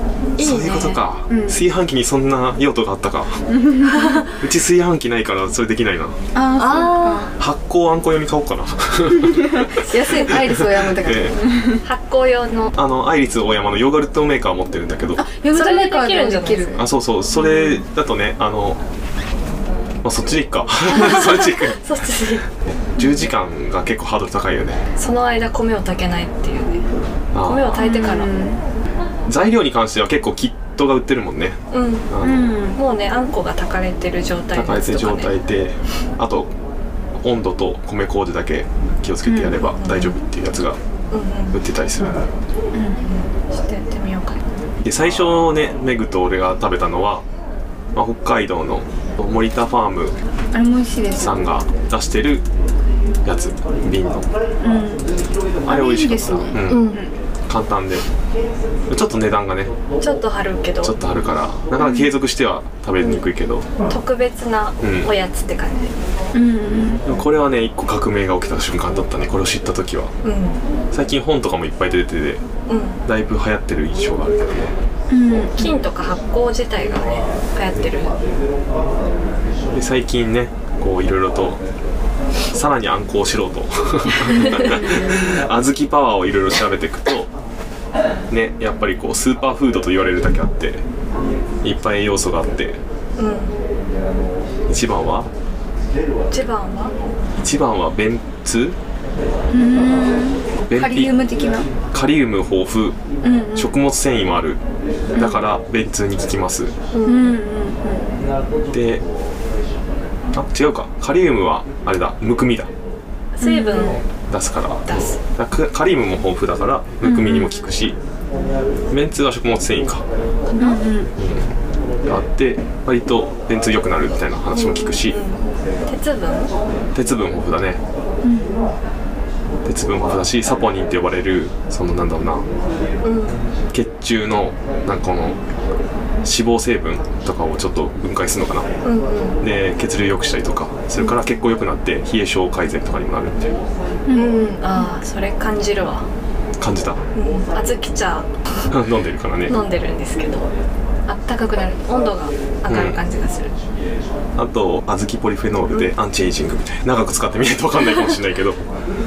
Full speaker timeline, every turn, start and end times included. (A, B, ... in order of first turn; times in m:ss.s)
0:00.4-0:01.0 A
0:00.4-0:03.4 B
0:01.3-0:01.6 C
0:03.5-0:04.2 C
0:04.0-0:04.3 A
0:04.3-0:06.2 B
0:06.3-0:07.3 C
0:06.6-0:07.3 A
0:07.4-0:11.4 B
0:09.3-0:11.8 C
0:11.8-0:12.8 A
0:12.7-0:15.3 B
0:15.2-0:16.8 C
0:15.5-0:16.8 A
0:16.8-0:18.8 B
0:20.0-0:21.8 B
0:20.9-0:22.5 A
0:23.0-0:24.8 B
0:25.0-0:26.9 A
0:27.3-0:27.7 B
0:27.4-0:28.3 A
0:27.7-0:28.6 C
0:29.3-0:32.5 B
0:31.7-0:32.1 A
0:32.2-0:32.8 C
0:32.7-0:35.4 A
0:34.5-0:36.5 B
0:37.2-0:40.8 B
0:39.2-0:39.6 C
0:39.8-0:40.2 A
0:41.1-0:41.6 A
0:41.5-0:42.3 B
0:42.7-0:43.0 C
0:43.0-0:44.4 A
0:44.8-0:47.2 B
0:48.0-0:50.2 B
0:50.5-0:51.4 C
0:51.2-0:52.4 B
0:53.2-0:54.3 B
0:54.6-0:55.1 C
0:55.6-0:57.0 B
0:55.6-0:57.1 C
0:56.7-0:57.0 A
0:57.5-0:58.1 B
0:58.9-0:59.7 B
1:00.0-1:01.0 A
1:00.8-1:03.7 B
1:03.9-1:05.9 A
1:04.8-1:05.1 B
1:06.3-1:07.0 C
1:07.0-1:10.1 B
1:10.2-1:10.6 A
1:10.9-1:12.4 B
1:12.7-1:13.0 A
1:13.0-1:14.8 B
1:15.1-1:15.7 C
1:15.6-1:18.2 A
1:19.7-1:21.6 B
1:22.5-1:27.3 B
1:24.5-1:25.4 C
1:28.3-1:30.8 B
1:31.6-1:32.8 B
1:33.2-1:33.6 A
1:34.7-1:35.3 B
1:36.3-1:36.9 A
1:37.4-1:38.8 B
1:39.5-1:41.7 C
1:40.7-1:41.2 B
1:41.9-1:43.0 B
1:43.2-1:43.7 C
1:43.5-1:44.6 B
1:45.1-1:45.4 C
1:45.2-1:46.7 B
1:46.9-1:47.4 A
1:47.0-1:48.1 C
1:48.7-1:49.0 B
1:50.3-1:52.7 B
1:53.4-1:54.0 A
1:53.4-1:54.0 C
1:54.3-1:58.0 B
1:54.9-1:55.2 A
1:57.0-1:57.6 A
1:57.3-1:57.6 C
1:58.9-2:00.0 B
2:00.5-2:00.8 A
2:00.6-2:01.1 C
2:01.2-2:01.5 B
2:02.0-2:05.2 B
2:04.5-2:06.5 A
2:06.9-2:07.8 B
2:08.2-2:08.7 C
2:09.6-2:12.5 B
2:13.0-2:13.4 A
2:13.7-2:15.4 B
2:16.2-2:18.7 B
2:18.8-2:19.4 A
2:19.4-2:23.6 B
2:24.1-2:24.6 C
2:24.1-2:26.1 A
2:26.6-2:27.0 B
2:27.2-2:28.3 A
2:28.7-2:29.6 B
2:29.5-2:30.5 A
2:31.1-2:33.5 A
2:32.7-2:33.0 B
2:34.4-2:38.6 B